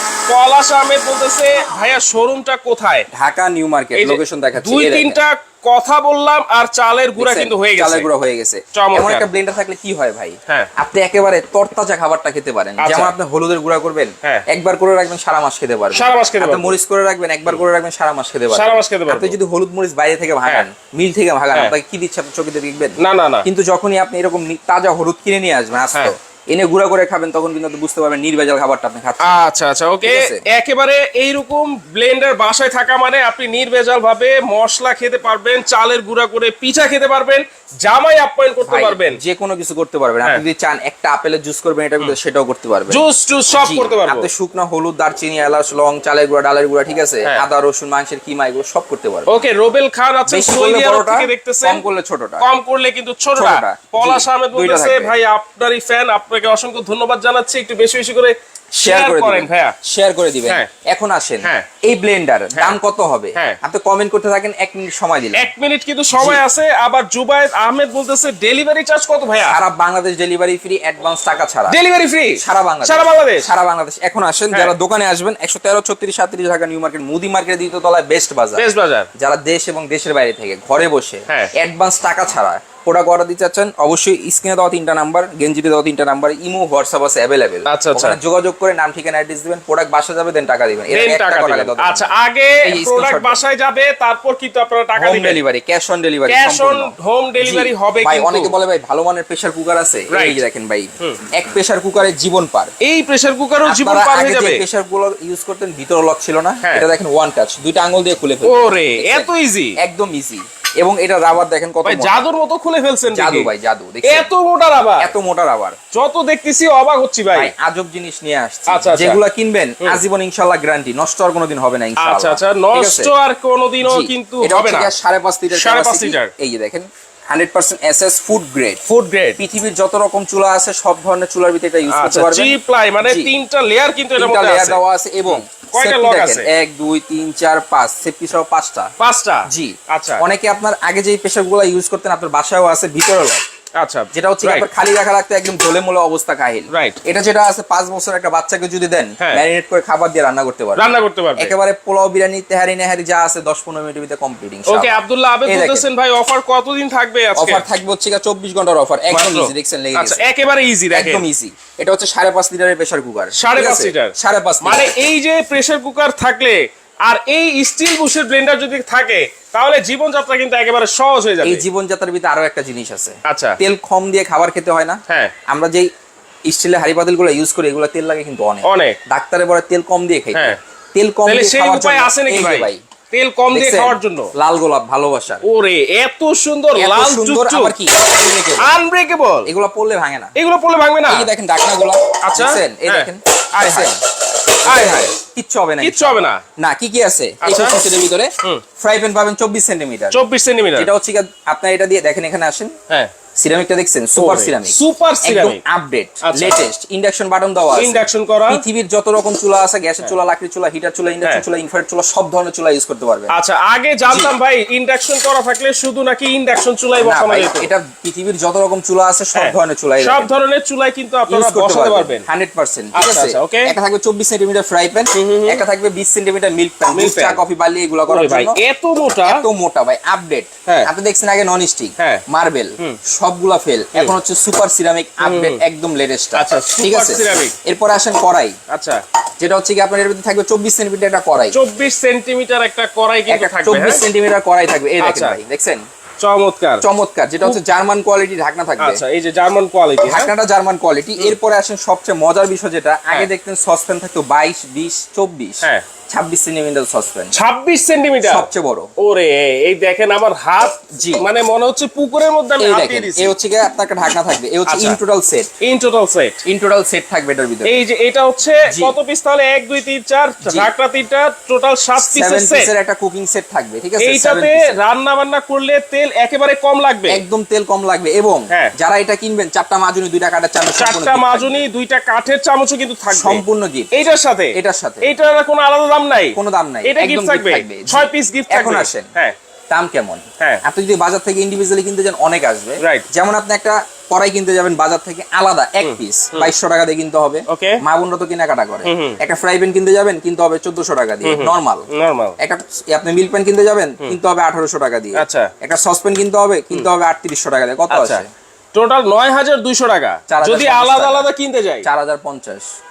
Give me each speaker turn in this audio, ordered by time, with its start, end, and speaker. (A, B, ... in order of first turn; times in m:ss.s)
0:00.3-0:03.1 A
0:03.1-0:05.2 B
0:04.0-0:08.1 A
0:07.2-0:29.3 B
0:08.7-0:09.3 A
0:12.8-0:13.1 A
0:15.9-0:16.8 A
0:18.5-0:19.4 A
0:23.0-0:23.4 A
0:29.2-0:39.2 A
0:30.0-0:30.4 B
0:38.6-0:49.5 B
0:42.9-0:44.3 A
0:49.3-0:51.8 A
0:50.3-0:52.4 B
0:52.4-0:59.7 A
0:53.4-0:55.1 B
0:58.8-1:05.5 B
1:05.3-1:09.6 A
1:06.1-1:06.4 B
1:09.4-1:11.8 B
1:11.7-1:13.5 A
1:12.4-1:18.6 B
1:18.6-1:19.1 A
1:19.2-1:32.1 B
1:27.6-1:28.2 A
1:30.9-1:35.4 A
1:32.6-1:33.4 B
1:35.0-1:42.7 B
1:36.3-1:38.5 A
1:40.1-1:40.4 A
1:42.8-1:44.6 A
1:43.6-1:52.2 B
1:46.6-1:46.9 A
1:48.4-1:49.8 A
1:51.8-1:53.5 A
1:53.1-1:54.3 B
1:54.0-1:55.1 A
1:55.0-1:55.8 B
1:55.9-1:57.5 A
1:57.3-2:03.1 B
1:58.7-1:59.2 A
2:02.0-2:04.9 A
2:03.8-2:08.8 B
2:05.5-2:06.3 A
2:08.8-2:09.4 A
2:09.4-2:13.3 B
2:11.9-2:16.5 A
2:14.2-2:18.9 B
2:19.0-2:20.2 A
2:19.5-2:23.4 B
2:23.8-2:24.7 A
2:24.1-2:35.9 B
2:26.7-2:27.0 A
2:29.2-2:29.4 A
2:30.8-2:31.6 A
2:34.7-2:37.6 A
2:37.4-2:40.2 B
2:39.1-2:41.2 A
2:40.9-2:44.9 B
2:43.4-2:51.6 A
2:51.4-2:55.9 B
2:53.3-2:53.6 A
2:56.5-3:02.8 B
2:58.6-2:59.0 A
3:01.2-3:04.3 A
3:03.5-3:05.4 B
3:05.4-3:07.7 A
3:06.8-3:08.8 B
3:08.6-3:09.5 A
3:09.4-3:10.3 B
3:10.4-3:11.3 A
3:11.1-3:14.0 B
3:12.2-3:14.0 A
3:14.6-3:20.2 B
3:14.6-3:15.1 A
3:15.8-3:16.4 A
3:17.4-3:17.8 A
3:20.1-3:20.9 A
3:20.8-3:22.7 B
3:23.4-3:33.3 B
3:24.2-3:25.6 A
3:26.2-3:26.6 A
3:27.8-3:28.6 A
3:33.3-3:37.7 A
3:37.0-3:40.3 B
3:39.3-3:42.2 A
3:41.3-3:48.6 B
3:42.9-3:43.7 A
3:45.1-3:45.6 A
3:46.9-3:47.4 A
3:48.1-3:49.4 A
3:49.2-3:58.6 B
3:50.6-3:50.9 A
3:55.2-3:55.6 A
3:56.3-3:57.6 A
3:58.7-3:59.0 A
3:59.4-4:01.6 B
4:01.5-4:04.0 A
4:03.3-4:05.8 B
4:05.0-4:05.4 A
4:06.2-4:06.8 A
4:06.8-4:09.0 B
4:08.8-4:10.3 A
4:10.0-4:17.3 B
4:17.3-4:18.5 A
4:18.2-4:18.9 B
4:19.0-4:23.3 A
4:20.9-4:21.2 B
4:22.6-4:25.5 B
4:24.7-4:25.0 A
4:25.6-4:26.4 A
4:26.4-4:27.8 B
4:27.6-4:32.7 A
4:28.7-4:29.0 B
4:30.4-4:30.7 B
4:32.0-4:34.7 B
4:34.0-4:37.2 A
4:37.1-4:41.6 B
4:40.8-4:49.3 A
4:43.1-4:43.9 B
4:44.5-4:45.1 B
4:46.3-4:49.1 B
4:49.7-5:01.9 B
4:52.8-4:53.0 A
4:55.8-4:56.5 A
4:57.5-4:57.8 A
4:58.8-4:59.2 A
5:01.2-5:02.4 A
5:02.4-5:08.3 B
5:05.2-5:05.5 A
5:07.9-5:11.9 A
5:10.3-5:11.3 B
5:11.8-5:12.6 B